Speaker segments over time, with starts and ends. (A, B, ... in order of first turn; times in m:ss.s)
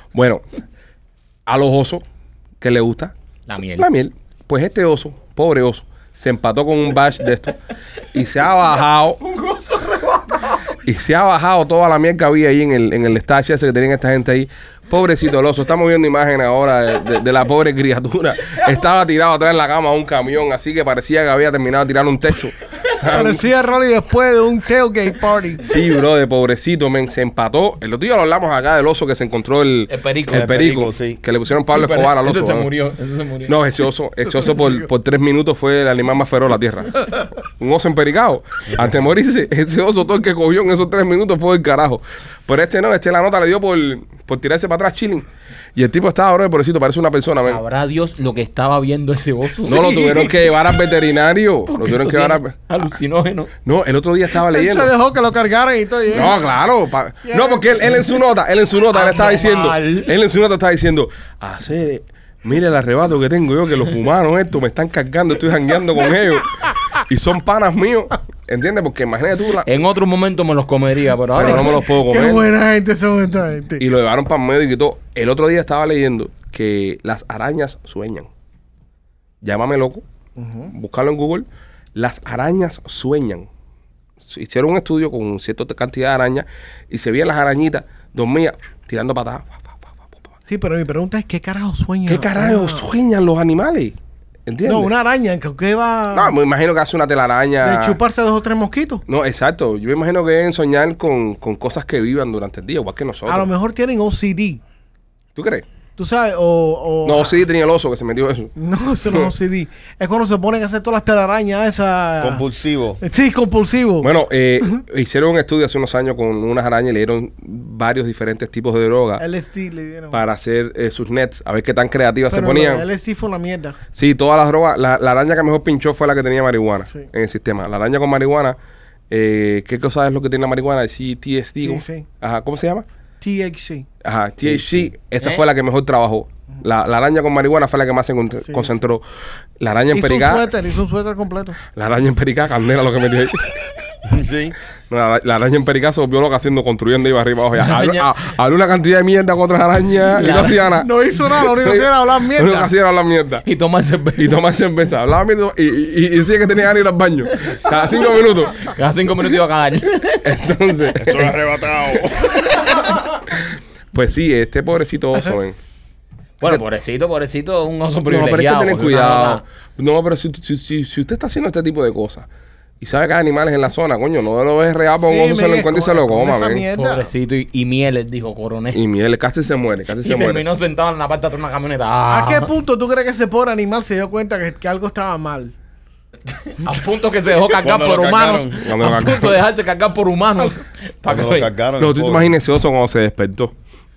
0:00.1-0:00.4 A
0:01.5-0:02.0 A
0:02.6-0:03.1 A
0:03.5-0:03.9 B
0:03.8-0:07.6 A
0:08.1-0:09.2 A
0:09.2-0:10.6 B
0:10.9-0:23.4 A
0:23.1-0:25.6 C
0:25.6-0:32.7 A
0:29.9-0:30.5 B
0:30.3-0:31.2 D
0:31.7-0:33.6 B
0:33.5-0:47.6 A
0:47.4-0:50.5 B
0:49.6-0:52.6 A
0:49.8-0:50.2 C
0:51.7-0:53.5 B
0:53.6-0:54.9 A
0:54.5-0:56.5 C
0:56.1-1:09.7 A
0:57.3-0:57.8 C
0:58.9-1:00.1 B
1:09.6-1:11.8 B
1:11.3-1:12.4 A
1:11.4-1:13.8 C
1:13.8-1:18.3 A
1:19.4-1:20.0 A
1:20.4-1:20.7 C
1:20.7-1:23.5 A
1:24.2-1:30.3 A
1:30.5-1:32.8 C
1:32.1-1:34.9 A
1:34.6-1:36.4 C
1:36.1-1:38.0 A
1:37.6-1:39.0 C
1:39.1-1:43.5 A
1:43.3-1:44.6 C
1:45.4-1:45.6 A
1:46.0-1:47.4 C
1:47.0-1:48.5 A
1:48.6-1:52.4 C
1:49.1-1:49.3 A
1:52.2-1:53.0 D
1:53.0-1:54.1 C
1:54.0-1:59.2 A
1:59.2-2:00.2 C
2:00.1-2:02.9 A
2:02.3-2:03.8 C
2:03.9-2:08.6 A
2:09.1-2:12.8 A
2:11.6-2:12.1 C
2:13.2-2:13.9 C
2:14.0-2:19.0 A
2:14.4-2:14.9 D
2:18.4-2:18.7 C
2:19.6-2:20.5 A
2:19.9-2:21.6 C
2:21.7-2:23.7 A
2:24.1-2:24.6 D
2:24.9-2:33.5 A
2:27.6-2:28.1 B
2:30.1-2:30.7 B
2:30.7-2:32.7 C
2:33.4-2:34.4 B
2:34.2-2:38.7 A
2:38.6-2:40.3 B
2:40.2-2:41.3 A
2:41.0-2:42.7 D
2:43.3-2:45.6 A
2:46.4-2:49.4 B
2:48.0-2:52.3 A
2:52.8-2:56.7 A
2:55.0-2:57.1 C
2:56.7-2:58.8 B
2:58.7-3:00.4 A
2:59.9-3:02.5 B
3:02.1-3:05.5 C
3:06.3-3:11.5 B
3:07.5-3:08.6 D
3:08.6-3:09.4 A
3:11.1-3:12.3 D
3:11.8-3:13.5 A